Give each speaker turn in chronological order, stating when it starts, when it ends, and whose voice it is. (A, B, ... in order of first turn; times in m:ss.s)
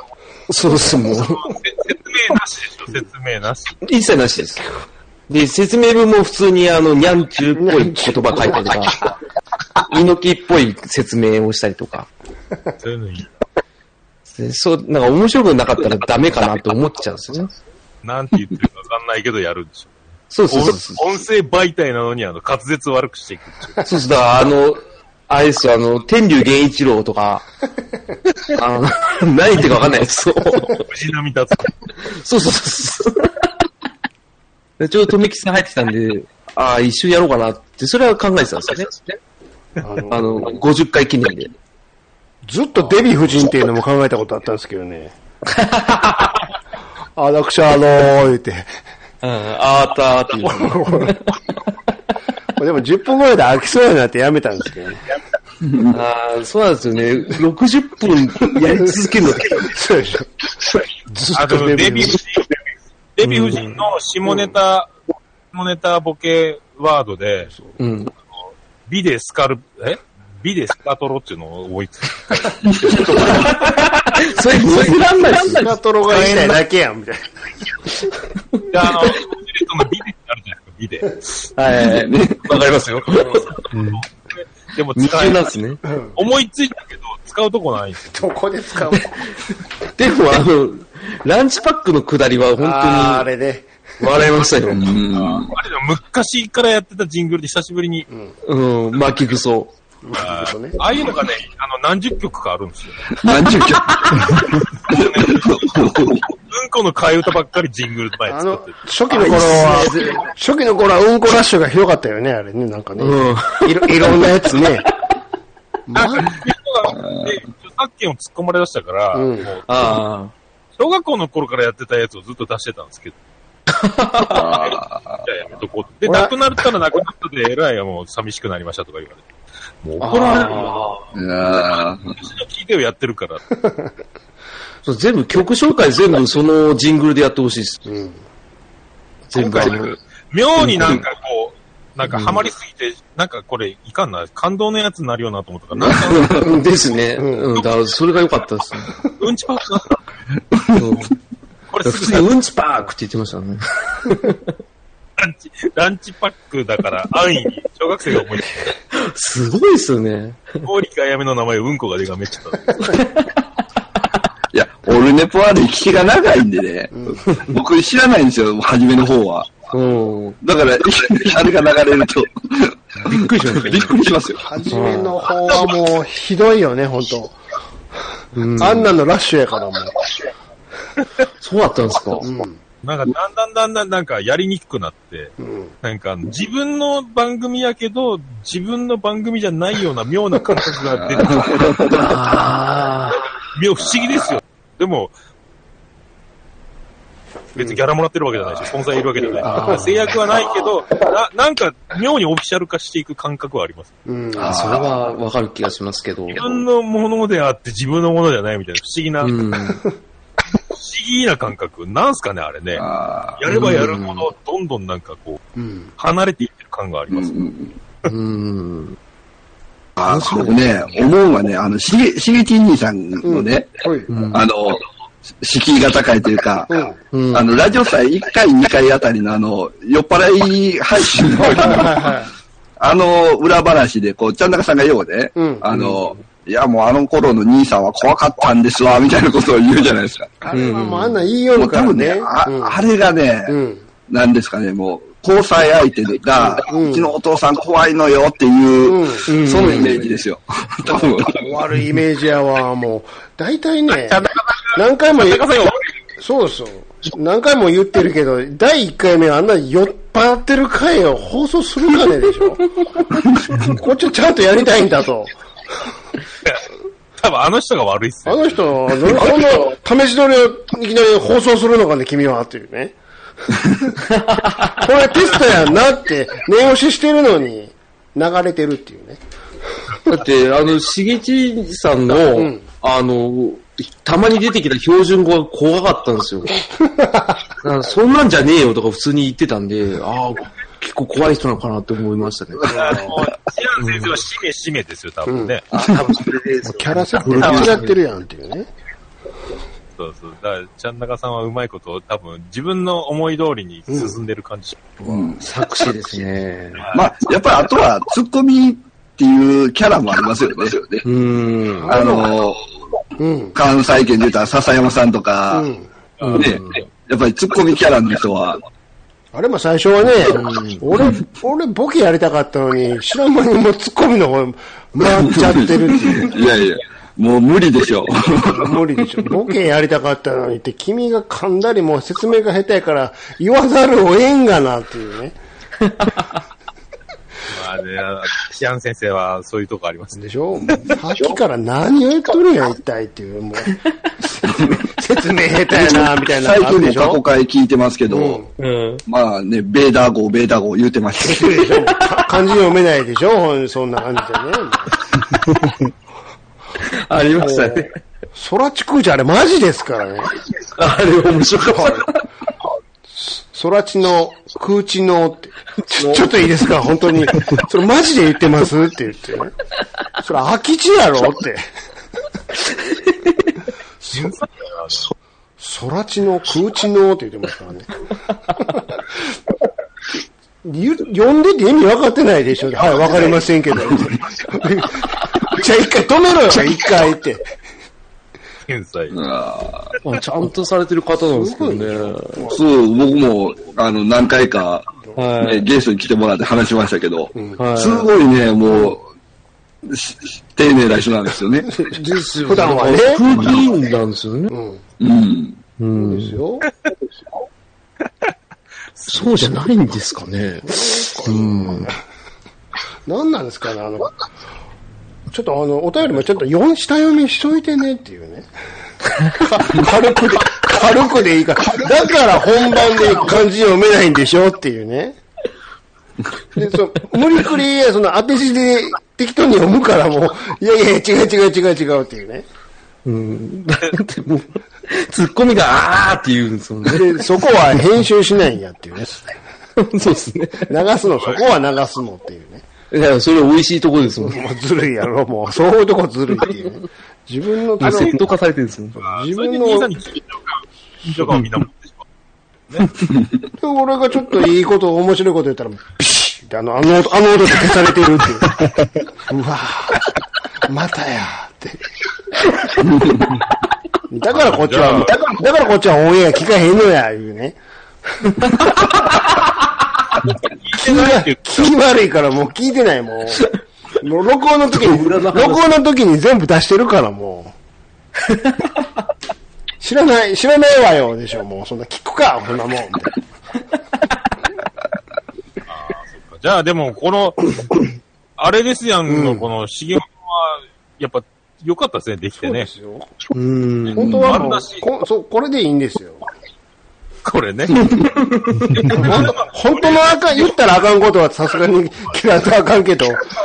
0:00.5-0:01.4 A
0:01.1-0:03.8 B
0:03.8-0:04.6 A
0:05.3-0:09.1 A
0:07.6-0:09.0 C
0:09.8-0:12.1 A
0:12.8-0:13.3 B
0:14.3-0:17.5 A
0:18.0-0:23.8 B
0:20.3-0:21.0 A
0:23.8-0:27.5 A
0:28.5-0:30.8 A
0:30.8-0:31.7 B
0:32.0-0:33.5 A
0:34.8-0:39.2 A
0:39.8-0:40.6 C
0:40.1-0:41.5 A
0:42.4-0:45.1 C
0:45.5-0:46.4 A
0:47.2-0:48.7 C
0:49.2-0:51.7 A
0:50.3-0:51.2 C
0:52.6-0:55.0 C
0:55.6-0:56.0 D
0:55.9-0:59.8 A
0:59.5-1:00.3 C
1:01.1-1:02.1 A
1:01.3-1:02.4 B
1:01.4-1:02.2 C
1:03.1-1:04.9 B
1:03.2-1:03.8 A
1:05.5-1:07.5 B
1:07.8-1:08.1 A
1:08.9-1:12.5 B
1:12.6-1:13.5 D
1:13.1-1:16.6 A
1:15.2-1:17.2 C
1:18.7-1:21.2 B
1:21.5-1:23.8 A
1:21.7-1:22.5 D
1:23.8-1:25.5 B
1:24.9-1:25.8 A
1:25.9-1:26.2 C
1:26.1-1:28.3 B
1:28.1-1:29.3 C
1:30.0-1:33.3 A
1:32.6-1:33.7 C
1:34.0-1:34.9 A
1:34.7-1:35.5 D
1:35.1-1:38.1 B
1:38.1-1:38.3 C
1:38.4-1:39.7 A
1:40.0-1:40.8 C
1:40.2-1:43.0 B
1:43.1-1:46.2 D
1:43.3-1:44.3 A
1:44.8-1:48.8 B
1:48.3-1:54.9 C
1:49.1-1:50.3 A
1:53.0-1:54.7 A
1:55.9-1:56.3 C
1:55.9-2:00.0 B
1:57.0-1:57.3 D
1:59.1-1:59.5 C
1:59.7-2:00.3 A
2:00.8-2:03.2 B
2:03.7-2:04.5 A
2:04.2-2:05.2 D
2:04.5-2:09.2 B
2:09.8-2:10.8 B
2:10.0-2:11.1 A
2:11.1-2:12.2 D
2:11.4-2:13.4 B
2:13.6-2:13.9 C
2:14.8-2:17.8 A
2:17.8-2:18.2 C
2:19.3-2:20.0 A
2:19.3-2:26.6 B
2:20.6-2:21.0 A
2:22.0-2:22.4 A
2:26.1-2:26.3 D
2:26.2-2:28.9 A
2:27.2-2:27.5 C
2:29.1-2:30.0 B
2:30.7-2:31.1 A
2:31.7-2:32.3 B
2:31.8-2:34.5 A
2:35.2-2:38.7 B
2:38.9-2:40.6 A
2:40.6-2:43.0 B
2:42.9-2:43.4 A
2:44.5-2:49.7 D
2:46.9-2:47.3 C
2:49.7-2:50.4 A
2:50.4-2:54.5 D
2:53.0-2:54.0 A
2:54.4-2:57.4 C
2:54.7-2:55.2 A
2:55.4-2:55.7 B
2:58.3-2:58.9 A
2:58.6-3:00.0 C
3:01.4-3:02.3 A
3:02.2-3:02.6 C
3:02.8-3:11.8 B
3:05.4-3:05.7 C
3:11.0-3:12.2 D
3:11.9-3:13.3 A
3:13.5-3:15.1 B
3:17.6-3:23.9 B
3:19.4-3:20.3 A
3:19.5-3:19.9 C
3:24.0-3:24.7 C
3:24.3-3:26.4 A
3:24.4-3:25.0 D
3:26.3-3:29.5 B
3:29.2-3:29.8 A
3:30.7-3:35.4 B
3:32.8-3:33.7 D
3:33.5-3:34.3 A
3:35.6-3:35.9 C
3:36.0-3:37.4 B
3:37.1-3:37.8 D
3:38.0-3:39.0 A
3:40.0-3:44.8 D
3:40.0-3:40.6 A
3:43.2-3:44.1 C
3:44.1-3:44.4 A
3:45.4-3:46.8 D
3:46.7-3:47.0 C
3:47.1-3:47.5 A
3:47.3-3:52.2 D
3:51.4-3:52.3 C
3:52.8-4:00.3 D
3:55.4-3:56.0 C
4:00.4-4:02.8 C
4:00.5-4:01.2 A
4:01.5-4:03.6 D
4:03.4-4:03.8 C
4:04.1-4:11.5 D
4:06.6-4:07.1 C
4:08.8-4:09.8 C
4:09.2-4:10.1 A
4:11.4-4:15.4 C
4:13.9-4:15.9 B
4:16.2-4:22.7 C
4:23.6-4:25.3 C
4:27.2-4:28.7 B
4:28.2-4:33.0 C
4:33.5-4:34.0 C
4:34.1-4:34.8 A
4:34.7-4:39.2 C
4:40.1-4:46.6 A
4:42.4-4:42.6 C
4:46.8-4:47.4 C
4:47.6-4:52.8 A
4:52.7-4:53.2 C
4:52.7-4:55.6 B
4:55.3-4:55.5 C
4:55.7-4:58.0 A
4:56.6-4:58.7 C
5:00.0-5:04.8 B
5:03.9-5:04.1 C
5:05.0-5:05.4 C
5:05.0-5:05.5 D
5:05.4-5:06.9 A
5:06.8-5:07.0 B
5:06.9-5:11.0 D
5:11.0-5:12.0 A
5:11.8-5:12.3 C
5:11.8-5:12.6 D
5:13.2-5:13.6 C
5:13.5-5:15.7 D
5:15.5-5:15.8 C
5:16.2-5:16.5 B
5:16.2-5:16.8 A
5:16.3-5:18.6 D
5:19.3-5:26.3 C
5:20.3-5:20.8 A
5:25.2-5:28.7 D
5:28.5-5:35.4 C
5:35.8-5:36.4 A
5:37.5-5:41.0 B
5:40.2-5:47.2 C
5:45.7-5:48.4 D
5:48.1-5:48.5 C
5:48.6-5:49.0 A
5:49.0-5:51.8 D
5:51.2-5:55.0 C
5:56.8-5:58.0 A
5:57.4-6:00.3 C
6:00.5-6:02.2 A
6:01.7-6:02.1 C
6:03.1-6:09.6 C
6:05.8-6:06.5 A
6:10.2-6:11.6 C
6:12.7-6:13.5 A
6:14.1-6:15.1 B
6:15.6-6:17.9 C
6:18.5-6:19.0 C
6:20.6-6:27.4 C
6:28.7-6:29.2 B
6:29.1-6:30.0 D
6:30.0-6:32.5 A
6:31.2-6:32.6 C
6:32.5-6:39.1 D
6:35.2-6:35.7 A
6:37.3-6:37.6 C
6:37.6-6:38.1 A
6:39.8-6:41.8 D
6:41.7-6:43.2 C
6:42.0-6:44.5 A
6:43.3-6:43.6 D
6:44.5-6:44.8 C
6:45.0-6:45.6 D
6:45.8-6:46.4 A
6:46.0-6:46.7 C
6:49.0-6:49.5 B
6:49.1-6:51.9 A
6:50.6-6:52.0 C
6:53.1-6:54.1 C
6:55.3-6:58.5 C
6:59.4-7:05.2 C
7:06.5-7:12.4 C
7:13.0-7:17.3 A
7:16.8-7:19.3 C
7:19.8-7:20.7 A
7:20.7-7:22.6 C
7:21.2-7:21.6 B
7:22.9-7:24.4 A
7:24.2-7:28.2 C
7:27.8-7:29.0 A
7:27.8-7:28.2 B
7:29.0-7:32.0 B
7:29.0-7:29.9 C
7:33.6-7:38.6 C
7:39.3-7:40.1 C
7:40.7-7:41.9 C
7:42.8-7:43.3 D
7:44.1-7:47.6 C
7:44.3-7:45.2 B
7:50.2-7:51.7 B
7:50.8-7:57.5 C
7:54.7-7:55.7 A
7:58.2-7:58.8 A
7:59.8-8:03.1 C
8:05.7-8:07.5 B
8:08.4-8:12.7 B
8:09.1-8:09.4 C
8:12.4-8:13.1 C
8:13.3-8:14.1 A
8:13.8-8:14.8 B
8:14.0-8:16.2 C
8:14.0-8:14.4 D
8:17.2-8:20.8 B
8:17.9-8:18.6 A
8:18.9-8:23.2 C